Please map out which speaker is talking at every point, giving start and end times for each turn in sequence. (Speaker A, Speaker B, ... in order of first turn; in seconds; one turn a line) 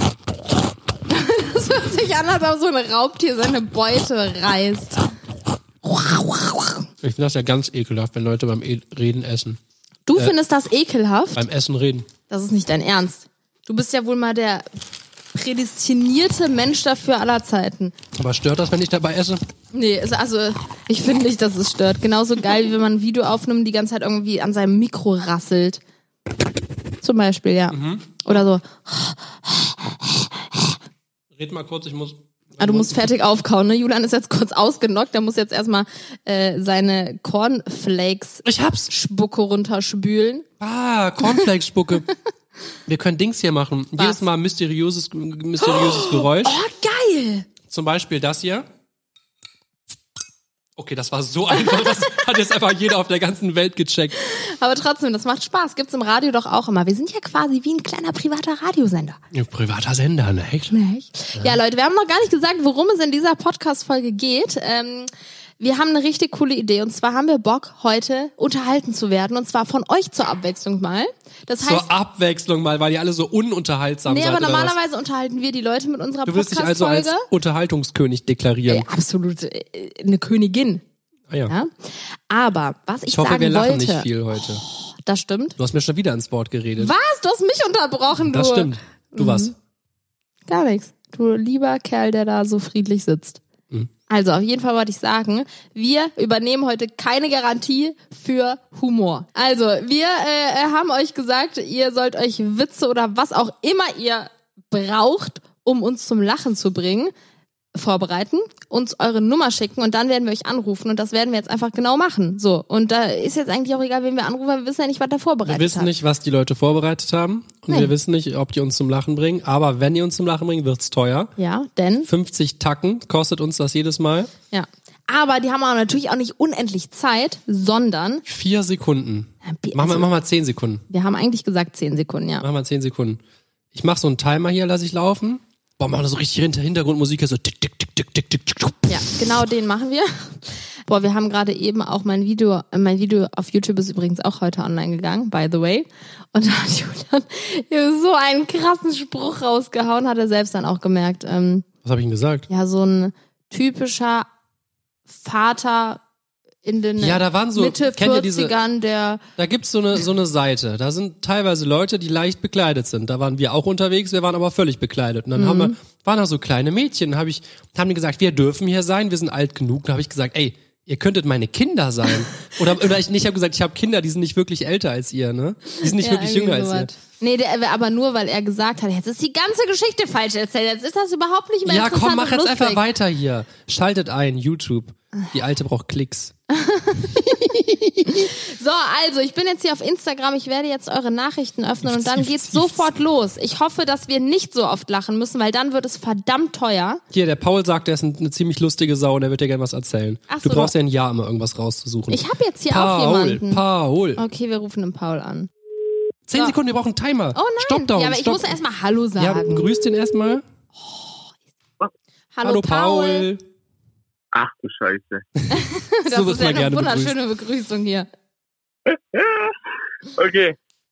Speaker A: 1.1-5.0
Speaker A: 5.8-6.8
Speaker B: 7.0-9.6
Speaker A: 10.1-11.4
Speaker B: 11.3-12.1
Speaker A: 12.3-14.7
Speaker A: 15.3-17.9
Speaker B: 18.1-19.4
Speaker A: 19.7-25.8
Speaker A: 27.0-30.7
Speaker B: 27.7-28.4
Speaker B: 31.3-33.1
Speaker A: 32.6-40.5
Speaker B: 38.4-38.9
Speaker B: 40.6-42.1
Speaker B: 42.9-46.5
Speaker A: 44.0-44.2
Speaker A: 45.6-47.5
Speaker B: 47.7-48.6
Speaker B: 50.8-54.1
Speaker A: 54.2-59.2
Speaker B: 59.3-60.7
Speaker A: 60.7-71.9
Speaker B: 71.6-74.8
Speaker A: 74.1-77.3
Speaker B: 76.2-78.8
Speaker A: 78.7-80.8
Speaker A: 81.5-85.5
Speaker B: 83.1-84.6
Speaker B: 85.6-86.9
Speaker A: 86.8-89.5
Speaker B: 88.2-89.5
Speaker A: 90.5-93.4
Speaker A: 94.1-107.1
Speaker A: 107.7-115.9
Speaker B: 115.5-121.3
Speaker A: 121.4-122.1
Speaker B: 122.0-124.3
Speaker A: 124.5-128.2
Speaker B: 128.2-130.8
Speaker A: 129.4-130.1
Speaker A: 130.9-132.4
Speaker B: 132.4-133.2
Speaker B: 133.7-139.2
Speaker A: 138.9-151.7
Speaker B: 151.8-152.5
Speaker A: 152.5-154.3
Speaker A: 155.1-156.0
Speaker A: 156.6-159.2
Speaker B: 157.0-158.5
Speaker B: 159.4-176.9
Speaker A: 165.3-165.7
Speaker A: 175.8-182.8
Speaker B: 181.6-186.3
Speaker A: 186.5-197.0
Speaker B: 191.8-192.9
Speaker B: 197.1-204.2
Speaker A: 200.3-200.7
Speaker A: 202.1-203.6
Speaker A: 204.2-205.5
Speaker B: 206.3-208.6
Speaker A: 207.3-209.7
Speaker B: 209.2-210.4
Speaker A: 210.8-211.3
Speaker A: 212.3-213.3
Speaker B: 212.4-213.4
Speaker C: 214.3-215.2
Speaker A: 215.5-218.1
Speaker B: 216.1-217.2
Speaker C: 218.9-219.5
Speaker C: 220.2-220.6